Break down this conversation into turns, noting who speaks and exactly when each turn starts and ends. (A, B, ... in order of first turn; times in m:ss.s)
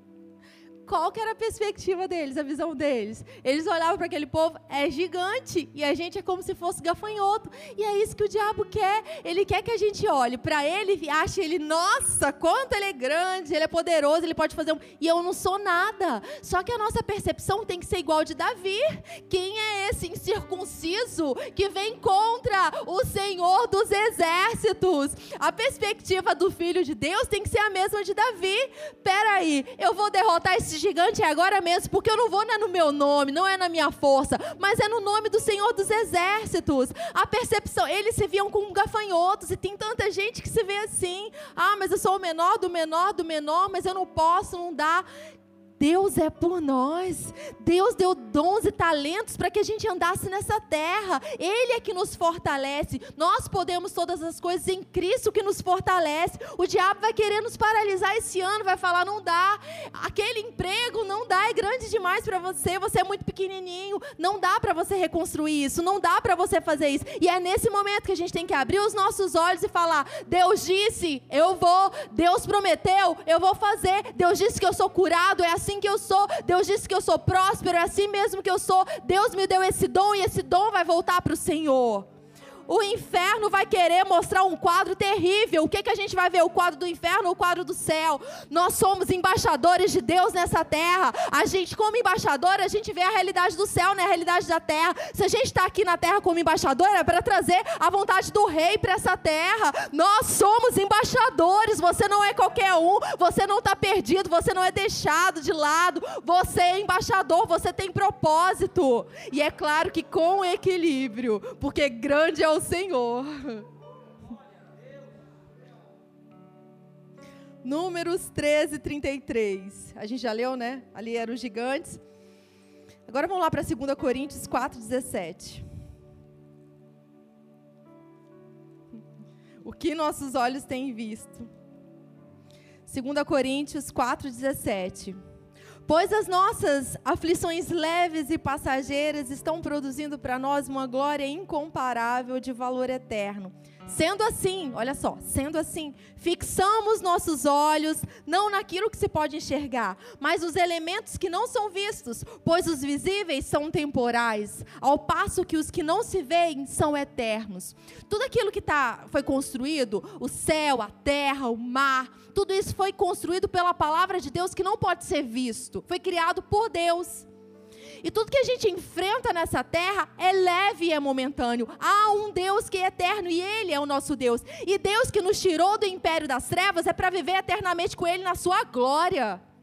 0:00.8-0:45.0 A
0:45.8-1:22.1 A
1:22.7-1:53.7 A
1:57.6-2:02.0 A
2:03.1-2:05.6 A
2:09.6-2:11.5 A
2:12.8-2:15.2 A
2:15.8-2:47.3 A
2:48.0-2:59.4 A